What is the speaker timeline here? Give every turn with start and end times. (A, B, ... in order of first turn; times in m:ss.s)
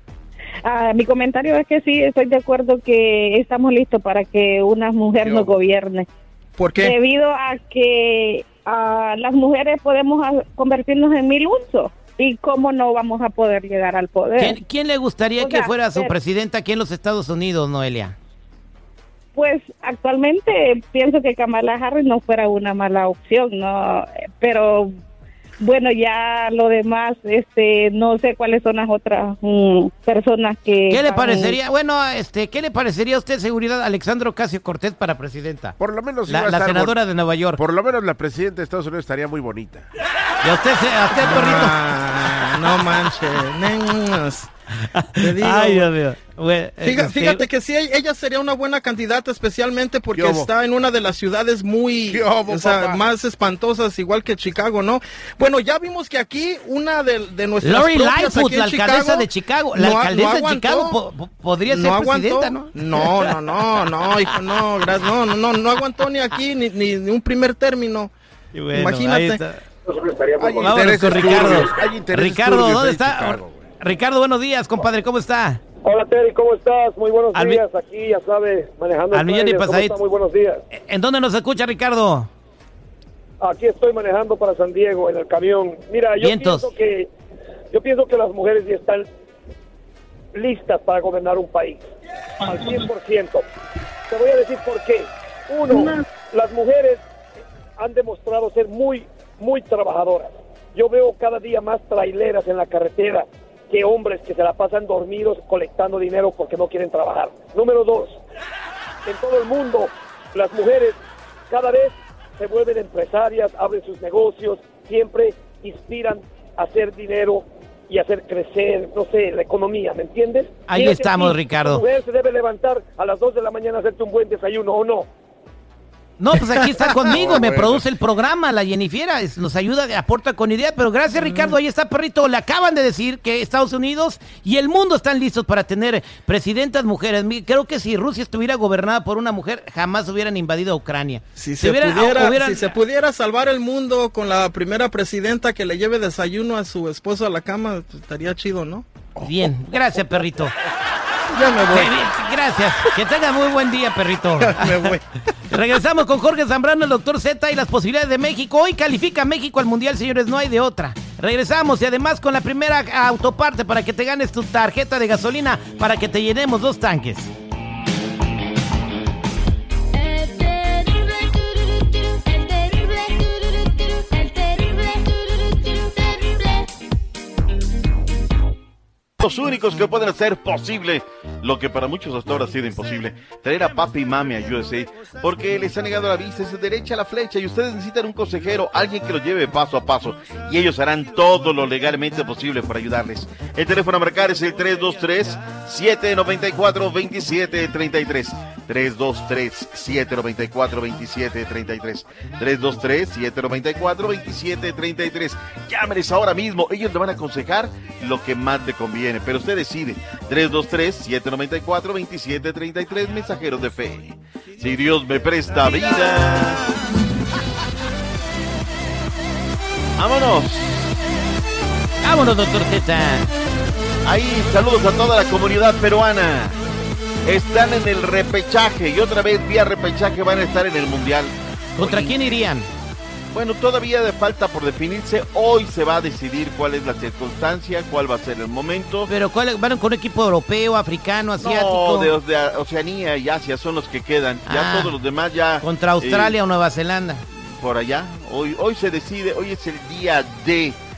0:00.6-0:06.1 A
0:05.2-0:05.5 B
0:06.6-0:06.9 C
0:06.8-0:14.6 A
0:14.4-0:18.2 D
0:15.4-0:16.1 A
0:19.3-0:25.0 A
0:25.6-0:31.6 A
0:30.9-0:37.6 D
0:35.8-0:36.9 B
0:37.6-0:39.9 B
0:40.4-0:41.8 D
0:41.1-0:44.5 C
0:44.8-0:47.4 D
0:45.2-0:45.9 C
0:46.8-1:01.0 C
0:50.1-0:50.5 B
0:52.1-0:53.0 B
0:57.6-1:03.4 D
1:01.7-1:08.1 C
1:08.5-1:09.6 D
1:08.7-1:09.4 C
1:09.9-1:10.6 E
1:10.4-1:13.7 B
1:10.6-1:15.6 D
1:15.8-1:20.6 E
1:17.3-1:17.6 D
1:19.1-1:20.0 D
1:20.7-1:22.3 D
1:23.4-1:27.1 E
1:26.2-1:26.7 D
1:27.7-1:29.1 E
1:30.3-1:31.8 E
1:32.4-1:33.4 E
1:34.1-1:37.0 E
1:37.8-1:48.2 E
1:49.0-1:51.0 E
1:51.5-2:05.1 E
2:00.7-2:01.8 D
2:06.2-2:22.6 D
2:06.8-2:07.1 C
2:07.1-2:07.9 B
2:11.2-2:11.5 C
2:21.4-2:28.8 C
2:29.2-2:30.5 D
2:31.3-2:31.9 C
2:31.7-2:35.0 D
2:34.4-2:35.0 C
2:35.5-2:47.3 D
2:59.2-3:36.6 F
3:40.0-3:40.9 F
3:42.0-3:43.3 D
3:44.0-3:46.6 F
3:47.2-3:52.2 F
3:51.8-3:52.7 D
3:53.3-3:59.1 F
3:59.1-4:02.1 D
4:01.4-4:06.4 F
4:04.5-4:04.9 D
4:05.6-4:07.2 D
4:07.4-4:10.8 F